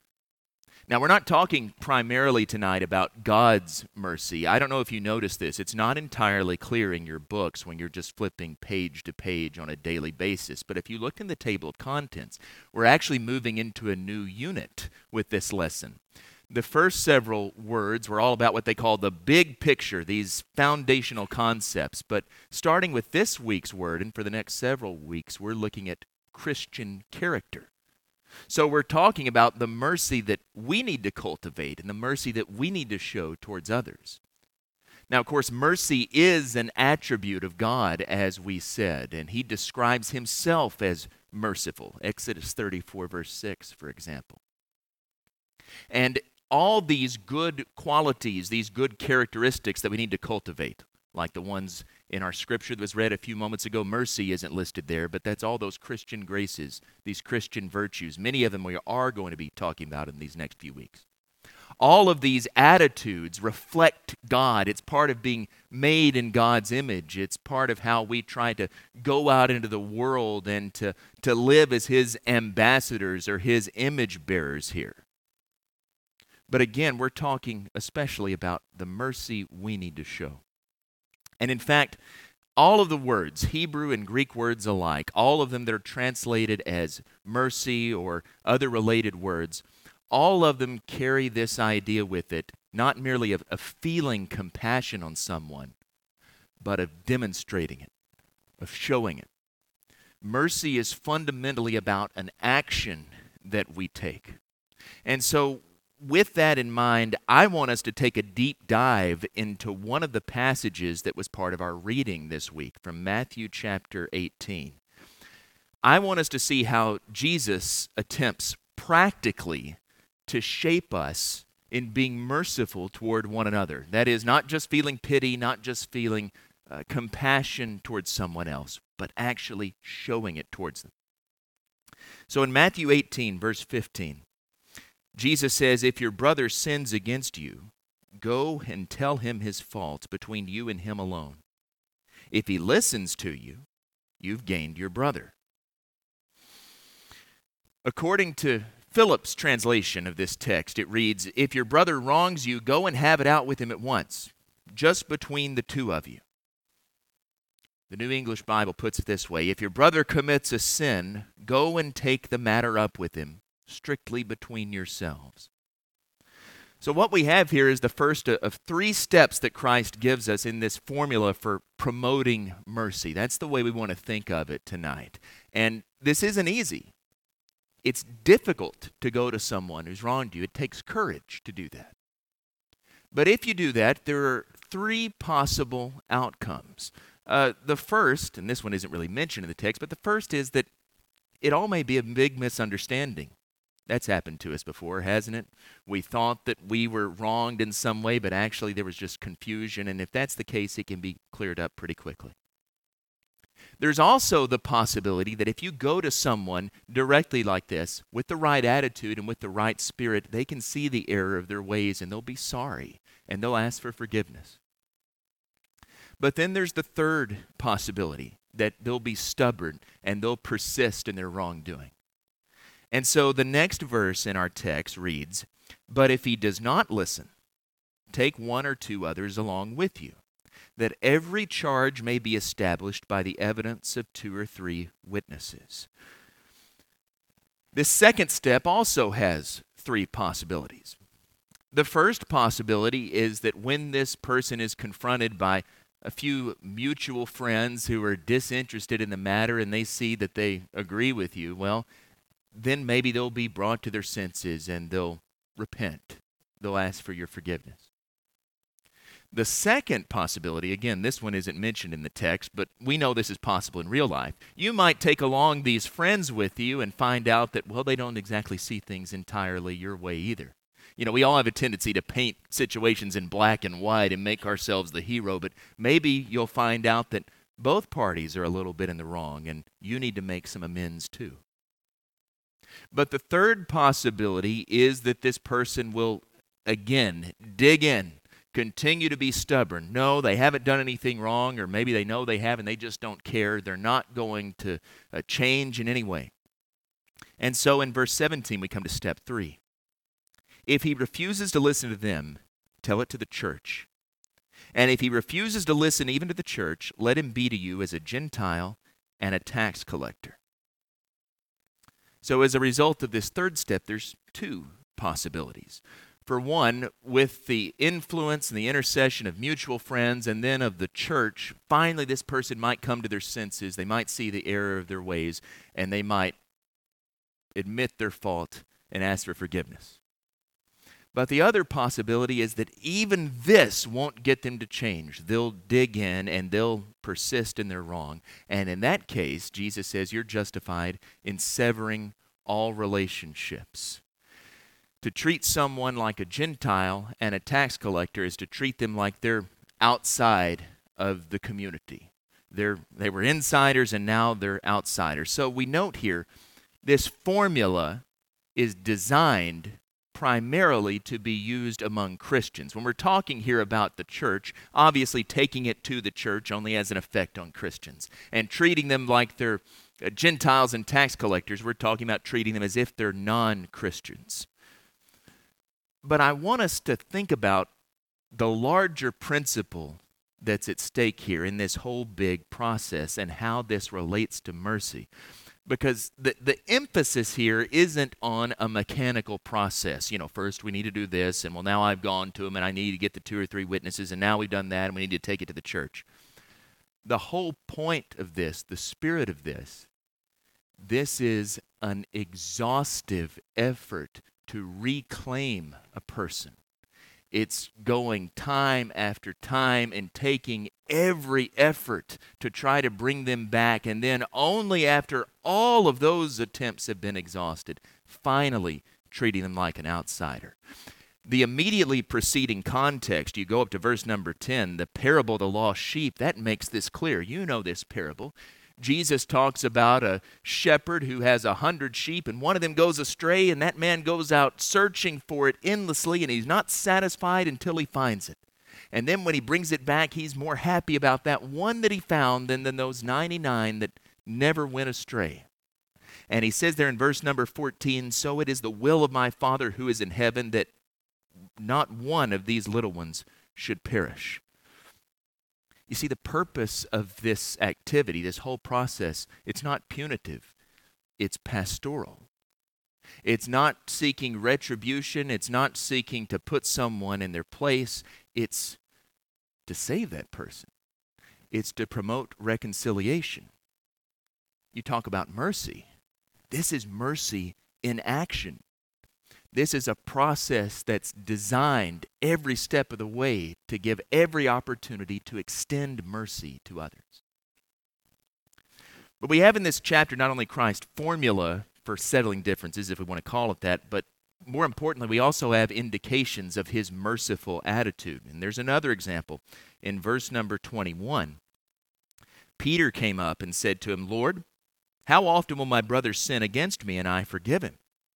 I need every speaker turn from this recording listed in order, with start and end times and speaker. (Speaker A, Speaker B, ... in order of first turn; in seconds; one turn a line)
Speaker A: 0.9-27.7
Speaker A: 28.5-34.2
Speaker A: 35.1-44.4
Speaker A: 45.9-61.0
Speaker A: 61.8-75.0
Speaker A: 76.5-80.4
Speaker A: 81.4-82.0
Speaker A: 82.6-95.8
Speaker A: 96.6-97.9
Speaker A: 98.6-99.3
Speaker A: 100.2-104.4
Speaker A: 105.0-114.8
Speaker A: 115.8-130.9
Speaker A: 132.3-134.2
Speaker A: 135.2-141.4
Speaker A: 142.3-143.7
Speaker A: 144.2-145.3
Speaker A: 147.8-156.2
Speaker A: 157.9-165.5
Speaker A: 166.8-176.9
Speaker A: 177.8-181.9
Speaker A: 183.1-190.7
Speaker A: 191.4-193.3
Speaker A: 193.9-202.3
Speaker A: 203.8-214.6
Speaker A: 216.2-221.9
Speaker A: 222.9-227.3
Speaker A: 228.1-230.2
Speaker A: 230.8-235.9
Speaker A: 237.7-241.0
Speaker A: 241.7-251.9
Speaker A: 252.5-257.9
Speaker A: 259.3-281.4
Speaker A: 282.9-296.3
Speaker A: 297.4-299.6
Speaker A: 300.7-303.9
Speaker A: 304.8-310.4
Speaker A: 312.2-326.4
Speaker A: 327.6-330.0
Speaker A: 331.1-344.0
Speaker A: 345.0-356.3
Speaker A: 356.8-358.0
Speaker A: 358.6-374.5
Speaker A: 376.0-377.7
Speaker A: 378.3-385.1
Speaker A: 385.7-396.1
Speaker A: 397.1-399.9
Speaker A: 400.8-406.6
Speaker A: 407.3-420.6
Speaker A: 421.2-438.4
Speaker A: 438.9-445.5
Speaker A: 446.3-450.7
Speaker A: 451.6-454.4
Speaker A: 455.9-460.5
Speaker A: 461.2-462.3
Speaker A: 463.2-468.8
Speaker A: 469.7-470.7
Speaker A: 471.5-473.5
Speaker A: 474.7-475.9
Speaker A: 476.5-478.6
Speaker A: 479.5-487.2
Speaker A: 489.2-501.4
Speaker A: 502.6-504.4
Speaker A: 505.1-507.8